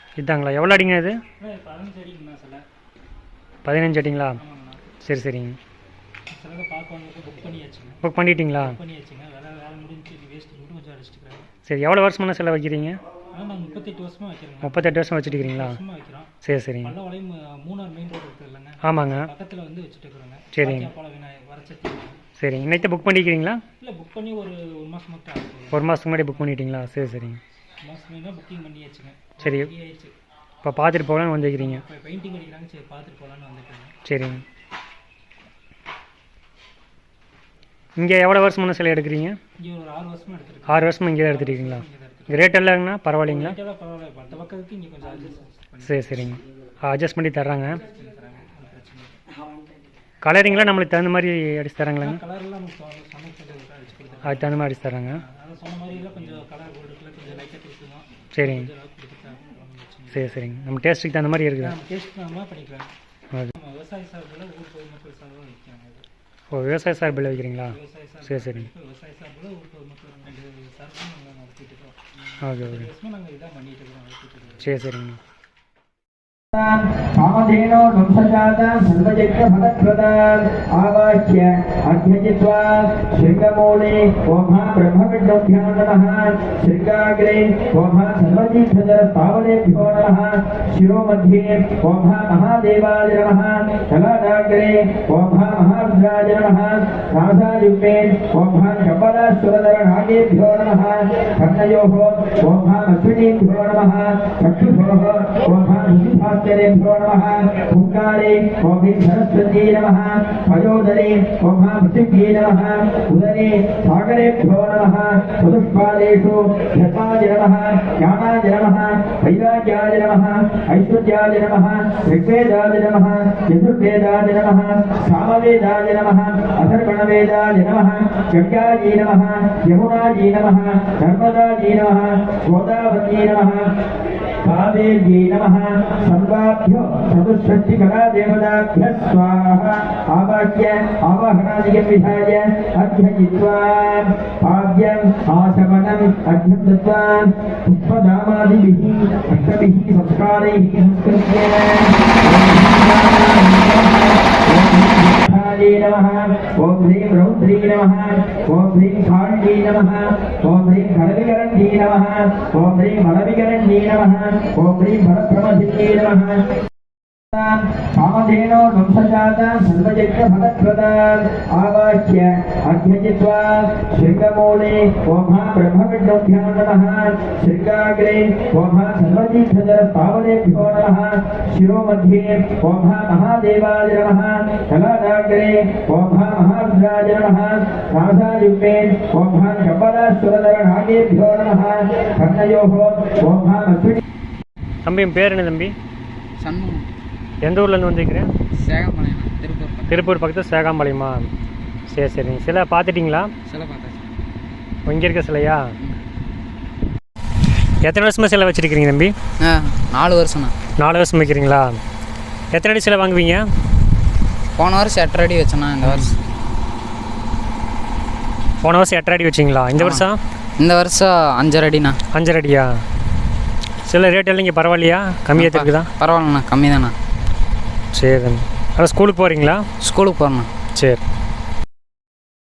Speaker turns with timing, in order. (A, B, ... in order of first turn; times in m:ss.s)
0:00.2-0:01.2 A
0:01.4-0:02.6 B
0:03.6-0:04.4 A
0:04.4-0:04.9 B
0:05.0-0:05.6 A
0:06.3-0:08.0 B
0:08.0-0:08.8 A
0:08.5-0:11.5 B
0:11.6-0:13.0 A
0:13.3-0:16.3 B
0:14.6-0:15.8 A
0:16.4-0:17.0 A
0:16.8-0:22.2 B
0:18.8-0:19.3 A
0:20.5-0:20.9 A
0:22.4-0:23.6 A
0:23.8-0:25.8 B
0:25.7-0:27.4 A
0:27.8-0:30.1 B
0:29.4-0:29.7 A
0:30.6-0:31.8 A
0:31.6-0:33.9 B
0:34.0-0:34.4 A
0:38.0-0:39.4 A
0:39.6-0:42.6 B
0:40.7-0:43.6 A
0:43.2-0:46.0 B
0:45.8-0:47.8 A
0:47.7-0:49.2 B
0:50.2-0:52.2 A
0:52.0-0:54.6 B
0:54.2-0:55.2 A
0:55.2-1:00.3 B
0:58.3-0:58.7 A
1:00.1-1:01.7 A
1:01.6-1:02.9 B
1:03.5-1:06.0 B
1:06.5-1:08.7 A
1:07.1-1:12.0 B
1:12.4-1:12.9 A
1:12.6-1:14.7 B
1:14.6-1:15.2 A
1:16.5-2:13.7 C
2:14.4-2:46.4 C
2:47.3-3:14.0 C
3:14.8-3:15.8 A
3:16.4-3:16.9 D
3:17.4-3:18.3 A
3:18.6-3:20.0 D
3:19.9-3:21.3 A
3:21.9-3:23.3 A
3:23.5-3:24.1 D
3:24.8-3:25.7 A
3:27.8-3:29.1 A
3:29.4-3:30.5 D
3:30.8-3:31.8 A
3:32.5-3:33.4 A
3:34.6-3:36.2 D
3:35.8-3:36.1 A
3:38.6-3:40.2 A
3:39.8-3:40.1 D
3:40.6-3:42.0 D
3:42.1-3:42.8 A
3:43.9-3:45.9 A
3:45.4-3:46.9 D
3:47.9-3:49.7 A
3:49.8-3:50.5 D
3:50.7-3:51.0 A